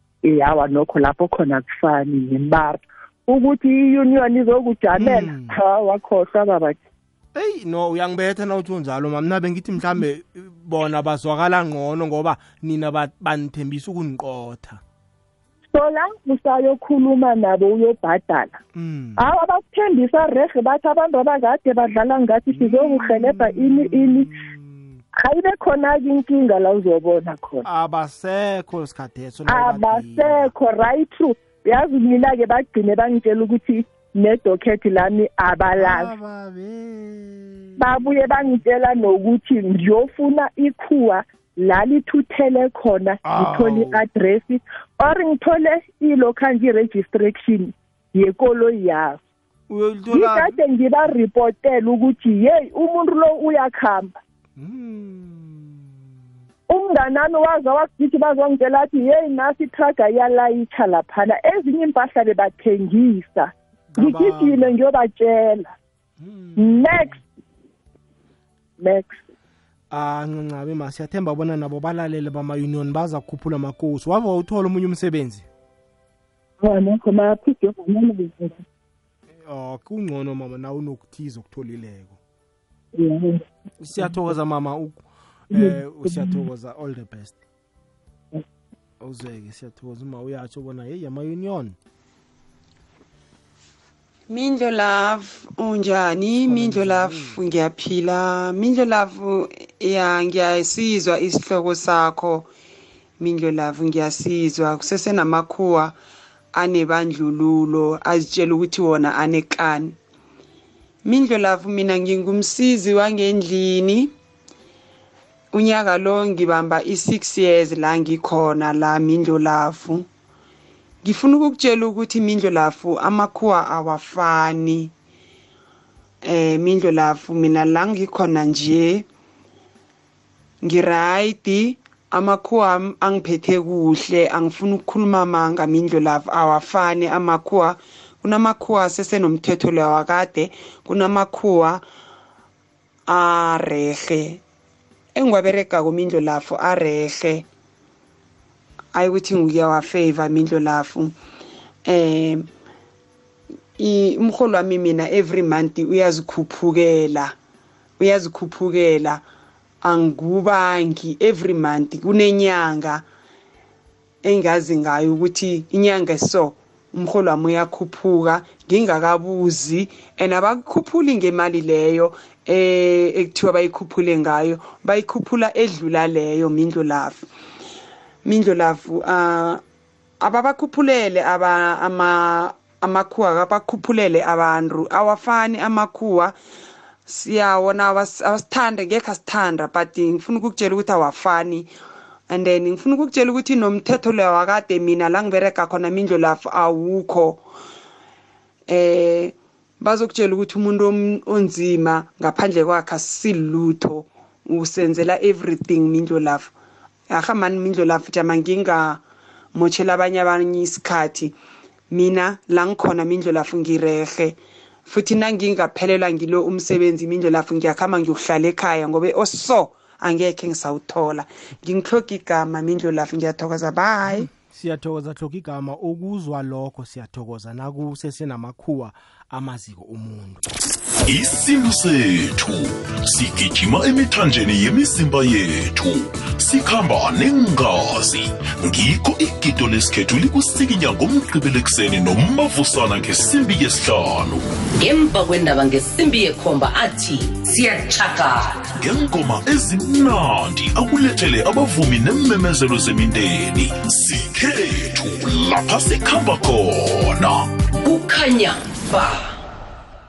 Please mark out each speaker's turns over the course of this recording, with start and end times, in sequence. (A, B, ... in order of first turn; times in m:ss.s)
0:00.2-0:06.8 A
0:05.0-0:05.6 B
0:07.3-0:14.8 B
0:15.7-0:18.6 A
0:18.7-0:19.2 B
0:19.2-0:24.3 A
0:22.5-0:25.0 B
0:25.2-0:27.6 A
0:27.6-0:30.5 B
0:29.5-0:36.1 A
0:35.8-0:38.6 B
0:37.8-0:49.2 A
0:43.2-0:44.0 B
0:49.7-0:50.6 B
0:50.1-0:54.2 A
0:54.6-0:56.2 B
0:56.7-1:05.7 A
1:03.9-1:04.7 B
1:06.2-1:07.2 B
1:06.6-1:07.2 A
1:08.8-1:09.2 A
1:09.9-1:15.4 B
1:16.6-1:18.6 A
1:19.4-1:22.2 B
1:22.9-1:23.4 A
1:23.8-1:27.4 B
1:25.5-1:26.4 A
1:29.0-1:31.8 B
1:34.3-1:42.5 C
1:36.4-1:37.4 B
1:43.2-1:45.9 C
1:46.5-1:50.0 C
1:51.0-1:54.1 C
1:55.5-2:00.1 C
2:01.0-2:04.9 C
2:06.2-2:09.0 C
2:10.6-2:21.8 C
2:23.1-2:24.4 C
2:25.1-2:27.5 C
2:28.9-2:31.2 C
2:31.8-2:32.5 C
2:33.8-2:37.4 C
2:38.0-2:39.2 C
2:39.8-2:43.0 C
2:44.2-2:57.3 C
2:58.2-2:59.6 C
3:00.2-3:06.3 C
3:07.1-3:11.7 C
3:12.3-3:17.4 C
3:18.7-3:26.5 C
3:27.1-3:29.0 C
3:29.5-3:31.3 C
3:31.9-3:44.3 C
3:44.0-3:50.5 B
3:51.0-4:04.5 D
4:04.8-4:08.5 E
4:08.8-4:17.5 D
4:17.8-4:19.2 E